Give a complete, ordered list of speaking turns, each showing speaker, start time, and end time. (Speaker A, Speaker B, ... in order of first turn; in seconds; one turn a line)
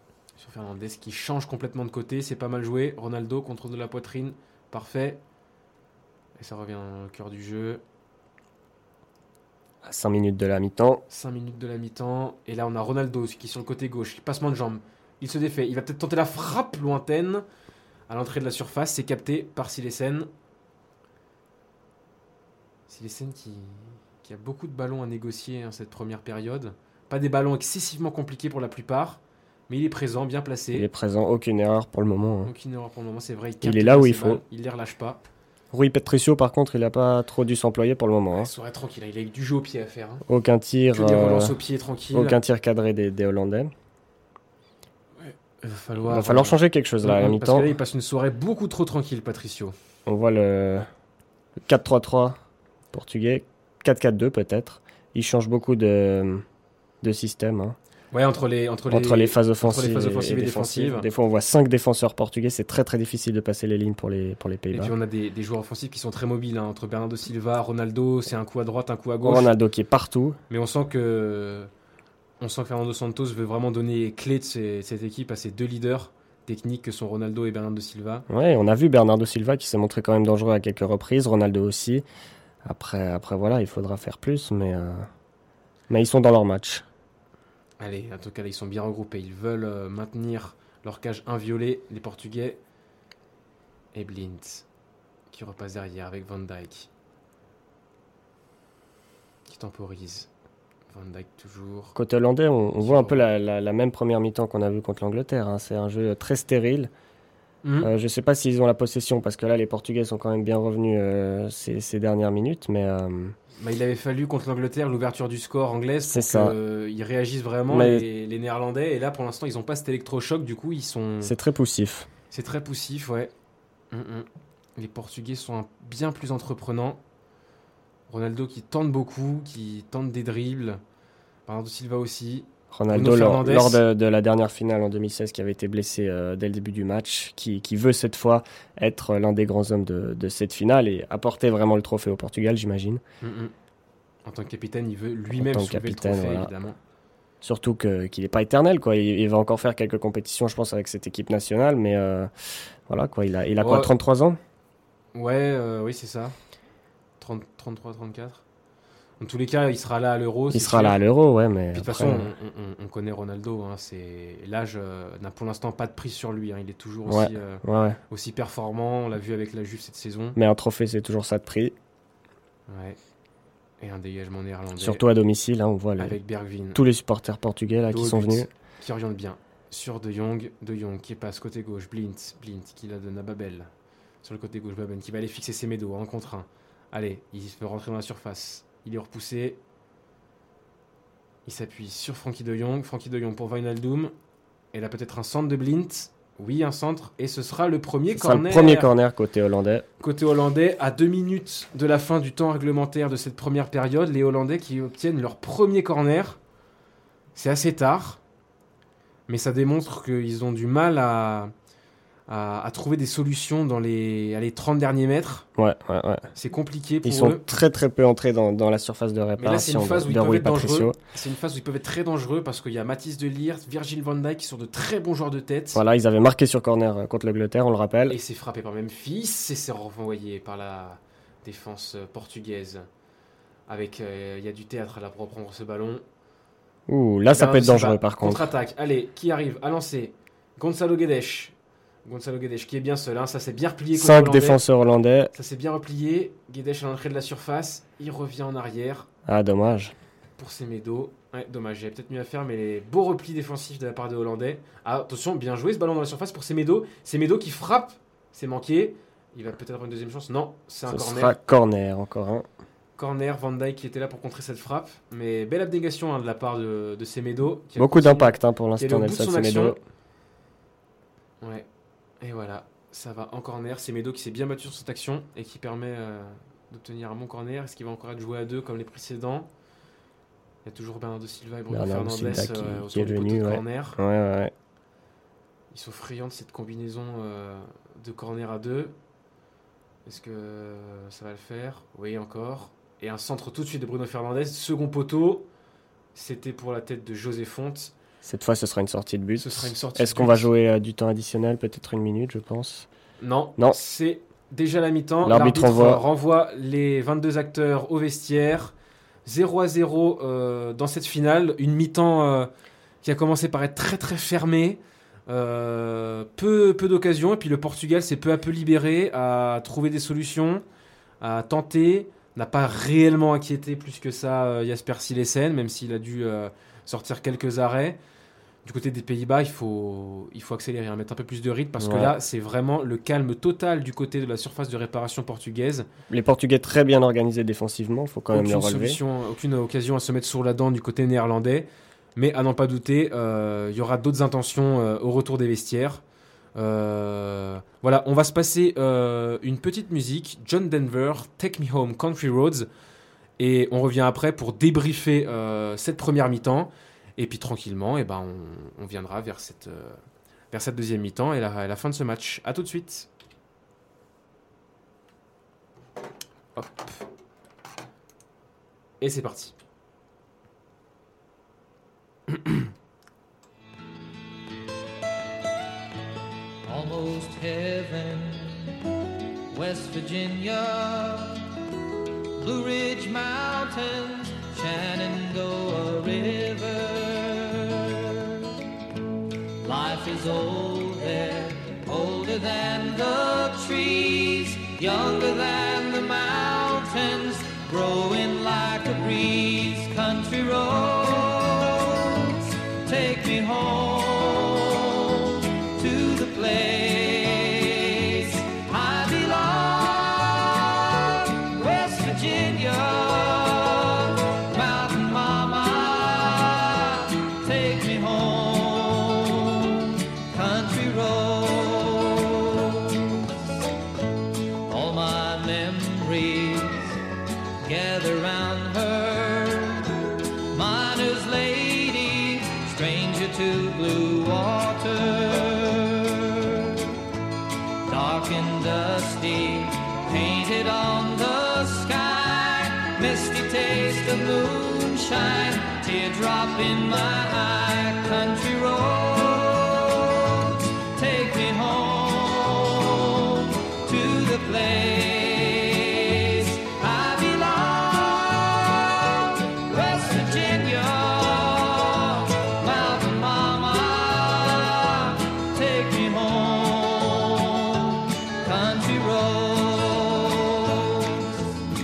Speaker A: 0.4-5.2
Speaker A: 6.4-7.8
Speaker B: 9.8-11.0
Speaker A: 11.1-17.4
Speaker A: 18.1-20.3
Speaker A: 22.9-30.9
Speaker B: 30.7-32.5
Speaker A: 32.4-35.2
Speaker B: 33.6-34.4
Speaker B: 35.7-38.5
Speaker A: 38.3-40.2
Speaker B: 40.3-41.6
Speaker A: 40.9-42.4
Speaker B: 42.1-43.7
Speaker A: 45.2-49.7
Speaker B: 46.1-47.7
Speaker B: 50.0-50.9
Speaker B: 51.6-52.4
Speaker B: 52.9-56.4
Speaker B: 57.0-57.8
Speaker A: 58.1-61.1
Speaker B: 58.9-64.9
Speaker A: 64.7-69.5
Speaker B: 69.2-70.4
Speaker A: 70.5-71.7
Speaker A: 72.4-78.3
Speaker B: 78.3-82.0
Speaker B: 82.6-85.1
Speaker B: 85.9-86.8
Speaker A: 87.8-92.6
Speaker A: 93.9-94.7
Speaker A: 95.3-96.9
Speaker A: 99.5-100.3
Speaker A: 100.9-101.9
Speaker B: 101.9-106.9
Speaker A: 102.8-103.2
Speaker A: 107.6-107.9
Speaker B: 107.8-113.3
Speaker A: 113.6-121.3
Speaker B: 116.1-116.5
Speaker B: 117.7-118.1
Speaker B: 121.2-122.1
Speaker A: 122.3-123.3
Speaker A: 123.9-127.0
Speaker A: 128.1-130.8
Speaker A: 131.5-133.8
Speaker B: 132.7-143.0
Speaker A: 143.2-143.5
Speaker A: 144.2-146.8
Speaker B: 145.3-146.5
Speaker B: 147.4-152.3
Speaker B: 152.9-154.4
Speaker A: 153.6-153.9
Speaker A: 155.1-156.3
Speaker A: 157.2-158.4
Speaker A: 159.2-161.0
Speaker B: 160.5-162.3
Speaker A: 161.7-170.4
Speaker B: 167.1-168.0
Speaker B: 170.3-171.7
Speaker A: 172.7-173.0
Speaker A: 173.8-175.0
Speaker B: 174.8-176.2
Speaker A: 176.0-176.8
Speaker B: 176.7-178.5
Speaker A: 177.9-183.7
Speaker A: 184.2-189.6
Speaker A: 191.4-194.1
Speaker A: 194.7-198.9
Speaker B: 198.1-199.8
Speaker A: 200.0-206.4
Speaker A: 207.3-208.2
Speaker A: 209.3-211.5
Speaker A: 212.3-215.5
Speaker B: 215.6-216.3
Speaker A: 216.3-217.4
Speaker B: 217.0-221.0
Speaker A: 219.4-225.8
Speaker B: 225.7-228.2
Speaker A: 228.1-232.8
Speaker A: 233.7-236.0
Speaker B: 236.9-238.5
Speaker A: 237.3-241.5
Speaker A: 242.1-244.6
Speaker B: 243.9-245.3
Speaker A: 245.3-249.1
Speaker B: 249.2-249.9
Speaker A: 250.4-261.4
Speaker B: 260.9-262.4
Speaker A: 263.0-269.8
Speaker B: 267.8-269.8
Speaker A: 271.4-271.7
Speaker A: 272.2-279.5
Speaker A: 280.6-284.0
Speaker B: 281.7-284.5
Speaker A: 285.7-288.9
Speaker A: 290.1-295.5
Speaker A: 296.1-297.9
Speaker B: 298.2-302.9
Speaker A: 299.4-300.5
Speaker A: 303.2-308.7
Speaker B: 305.2-306.0
Speaker A: 309.2-312.5
Speaker A: 313.0-320.6
Speaker A: 321.2-328.0
Speaker A: 328.6-335.9
Speaker B: 331.8-332.2
Speaker B: 336.1-339.0
Speaker A: 338.3-346.0
Speaker A: 346.6-352.7
Speaker A: 353.4-360.0
Speaker A: 360.5-363.1
Speaker A: 366.6-367.0
Speaker A: 369.0-369.5
Speaker C: 376.6-378.8
Speaker C: 379.5-381.6
Speaker C: 382.4-388.5
Speaker C: 389.6-423.5
Speaker C: 424.7-427.0
Speaker C: 427.6-437.0
Speaker C: 437.9-471.6